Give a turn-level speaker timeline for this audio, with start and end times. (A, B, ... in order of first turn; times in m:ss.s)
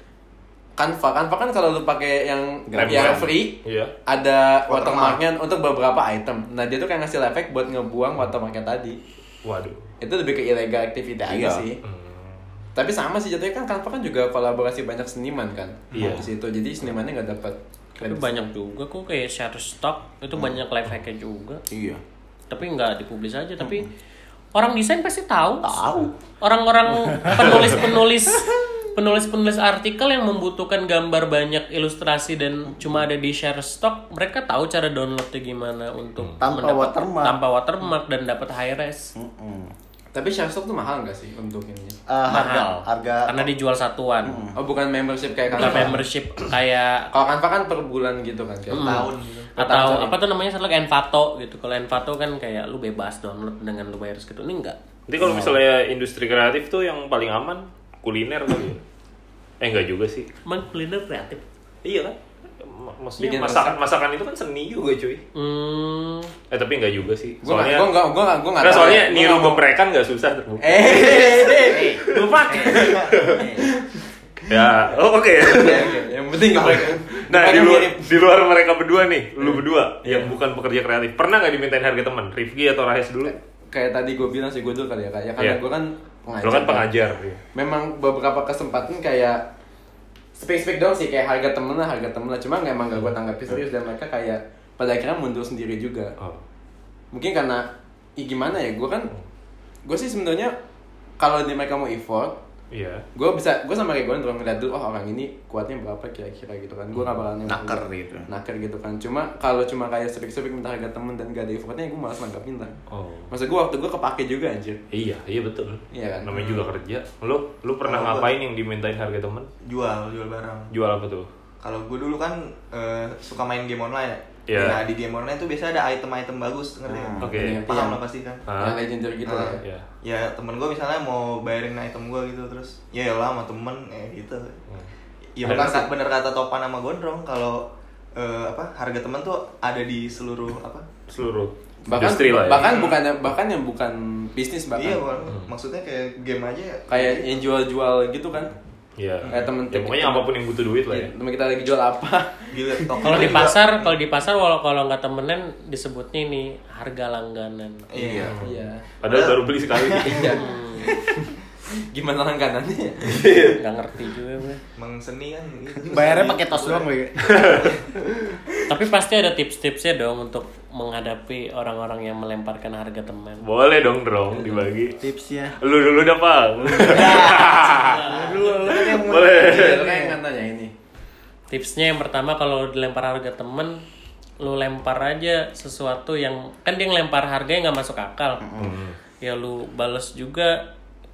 0:00.8-0:09.0 A
0:02.7-0:03.3 B
0:02.8-0:03.9 C
0:04.7-0:05.2 D
0:09.4-0:09.8 C
0:10.0-0:11.8 A
0:11.2-0:11.7 B
0:11.8-0:12.5 C
0:12.8-0:18.5 A
0:16.0-0:16.2 B
0:16.0-0:16.3 C
0:18.0-0:21.6 E
0:21.7-0:22.0 B
0:22.5-0:23.9 E
0:23.6-0:23.9 B
0:24.6-0:25.9 E
0:25.6-0:26.1 B
0:26.4-0:39.1 E
0:27.1-0:27.7 B
0:36.4-0:37.4 B
0:39.2-0:39.7 B
0:40.1-0:42.0 A
0:42.1-0:43.5 B
0:42.3-0:44.4 E
0:44.2-0:44.6 B
0:44.6-0:46.0 A
0:45.5-0:47.1 E
0:47.1-0:50.2 A
0:48.7-0:49.1 E
0:48.8-0:49.5 D
0:49.6-0:54.8 E
0:55.1-0:58.8 C
0:59.6-1:00.3 C
1:00.4-1:01.4 E
1:01.8-1:05.2 C
1:03.2-1:03.8 A
1:05.4-1:06.3 E
1:06.5-1:07.9 C
1:07.4-1:09.6 A
1:08.6-1:11.2 C
1:10.6-1:14.0 A
1:11.5-1:13.7 B
1:12.7-1:13.2 D
1:13.1-1:13.4 C
1:14.5-1:15.9 C
1:15.4-1:18.1 A
1:15.5-1:16.0 D
1:16.5-1:16.9 D
1:17.2-1:23.4 C
1:19.4-1:20.3 A
1:23.3-1:26.9 A
1:26.4-1:27.4 C
1:27.6-1:29.4 A
1:30.4-1:36.1 A
1:37.1-1:37.7 A
1:38.2-1:39.1 A
1:39.9-1:40.6 A
1:41.2-1:42.4 A
1:42.7-1:43.0 C
1:43.1-1:52.8 A
1:47.5-1:48.3 B
1:52.9-1:53.3 C
1:53.3-1:54.8 A
1:54.9-1:59.5 C
1:55.9-1:56.3 A
1:56.3-1:56.6 D
1:57.8-1:58.3 D
1:59.6-2:00.7 D
2:00.7-2:01.3 C
2:01.6-2:08.4 D
2:04.5-2:04.8 C
2:06.9-2:07.4 B
2:07.2-2:07.7 C
2:07.4-2:08.0 A
2:08.5-2:08.8 C
2:08.6-2:09.6 A
2:09.3-2:14.6 D
2:09.6-2:09.8 C
2:15.4-2:17.6 D
2:15.4-2:15.9 A
2:15.4-2:15.8 C
2:18.2-2:20.9 D
2:21.1-2:22.8 C
2:21.9-2:25.2 A
2:22.5-2:23.0 D
2:24.8-2:27.3 D
2:26.9-2:28.5 A
2:29.0-2:31.1 C
2:29.2-2:29.5 D
2:29.3-2:30.3 A
2:30.9-2:33.2 A
2:32.5-2:33.9 D
2:33.0-2:38.3 E
2:37.9-2:38.5 D
2:38.1-2:38.8 A
2:38.2-2:40.4 C
2:39.0-2:40.5 D
2:40.0-2:41.3 A
2:40.3-2:41.0 E
2:41.9-2:43.6 A
2:43.4-2:44.6 E
2:44.8-2:46.9 D
2:45.8-2:47.5 B
2:47.2-2:47.7 C
2:48.7-2:53.4 E
2:53.4-2:55.0 C
2:55.0-2:55.6 B
2:55.6-3:00.0 C
2:56.8-3:00.1 B
2:57.8-2:58.2 E
2:59.2-3:00.7 A
3:01.5-3:03.8 E
3:04.4-3:08.5 E
3:08.4-3:08.7 B
3:08.6-3:09.0 C
3:09.2-3:10.6 E